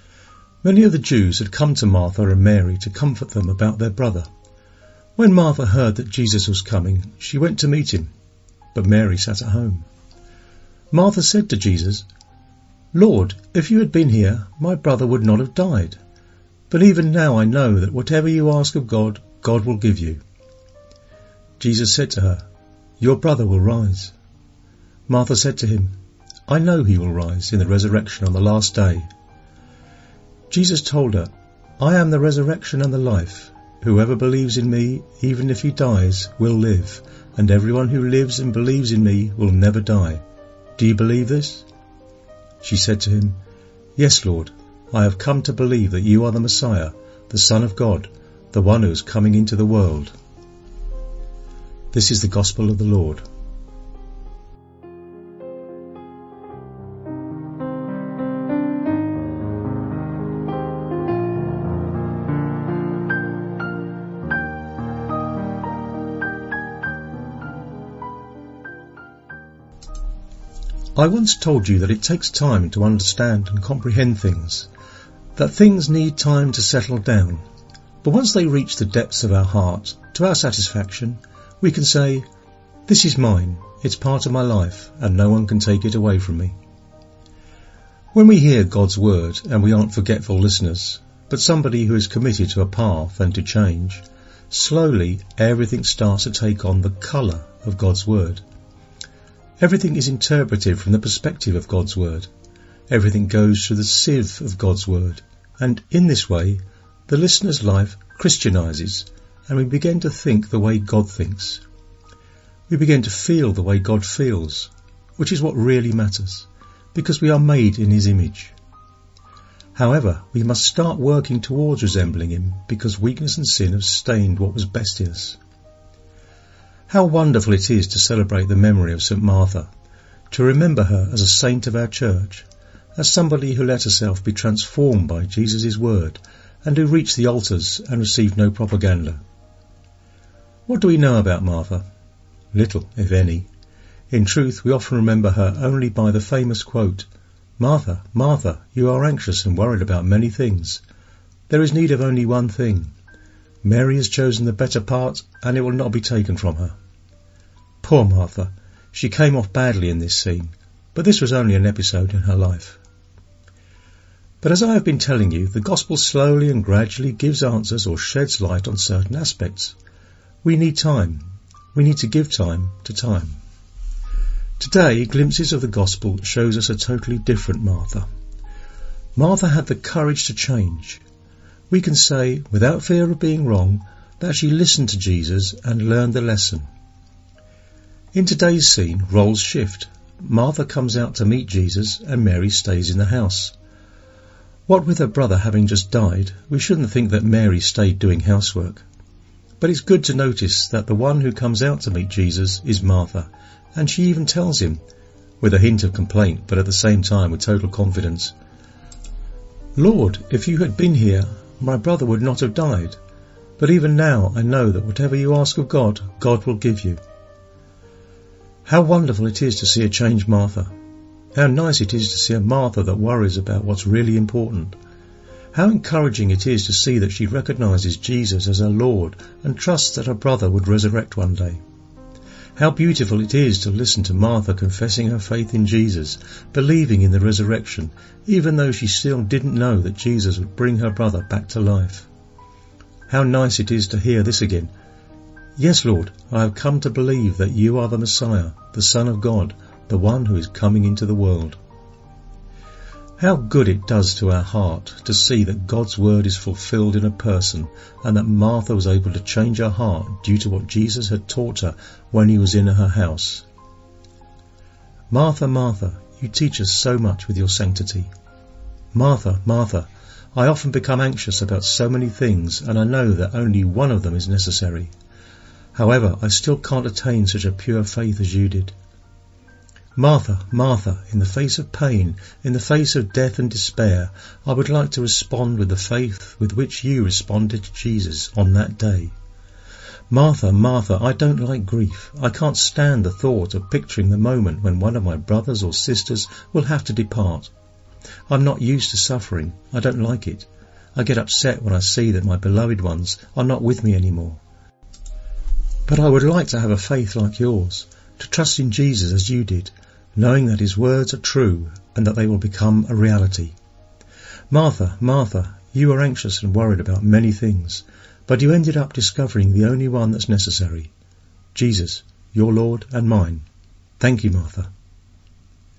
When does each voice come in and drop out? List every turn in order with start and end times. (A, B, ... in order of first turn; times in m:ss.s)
0:00.6-0:04.3 A
0:05.2-0:08.1 A
0:08.7-0:09.9 A
0:10.9-0:12.1 A
0:12.9-0:16.0 A
0:16.7-0:20.2 A
0:21.6-0:22.4 A
0:23.0-0:24.1 A
0:25.1-0:25.9 A
0:26.5-0:29.1 A
0:30.5-0:40.2 A
0:40.8-0:41.7 A
0:42.6-0:43.4 A
0:44.0-0:50.1 A
0:51.9-0:53.2 A
1:11.0-1:14.7 A
1:15.4-1:17.4 A
1:18.0-1:22.2 A
1:22.9-1:26.6 A
1:28.1-1:38.4 A
1:39.6-1:42.3 A
1:42.9-1:51.6 A
1:52.7-1:58.6 A
1:59.8-2:05.4 A
2:06.9-2:09.7 A
2:10.3-2:12.5 A
2:13.0-2:19.2 A
2:20.7-2:21.8 A
2:22.5-2:23.5 A
2:24.1-2:27.1 A
2:27.6-2:30.8 A
2:31.5-2:32.9 A
2:33.6-2:36.8 A
2:37.8-2:42.8 A
2:44.4-2:49.8 A
2:50.4-2:53.4 A
2:54.6-2:58.0 A
2:59.2-3:01.0 A
3:01.7-3:06.7 A
3:08.1-3:13.6 A
3:14.7-3:18.8 A
3:19.6-3:24.8 A
3:25.4-3:28.3 A
3:29.8-3:33.0 A
3:33.6-3:37.0 A
3:38.7-3:40.7 A
3:41.4-3:44.8 A
3:45.5-3:51.6 A
3:52.6-4:02.1 A
4:03.1-4:04.7 A
4:05.6-4:11.6 A
4:13.2-4:23.4 A
4:25.1-4:28.1 A
4:28.9-4:34.9 A
4:35.8-4:38.7 A
4:40.0-4:49.2 A
4:50.1-4:57.5 A
4:58.3-5:04.4 A
5:05.9-5:13.6 A
5:14.5-5:20.9 A
5:21.5-5:23.4 A
5:24.0-5:24.7 A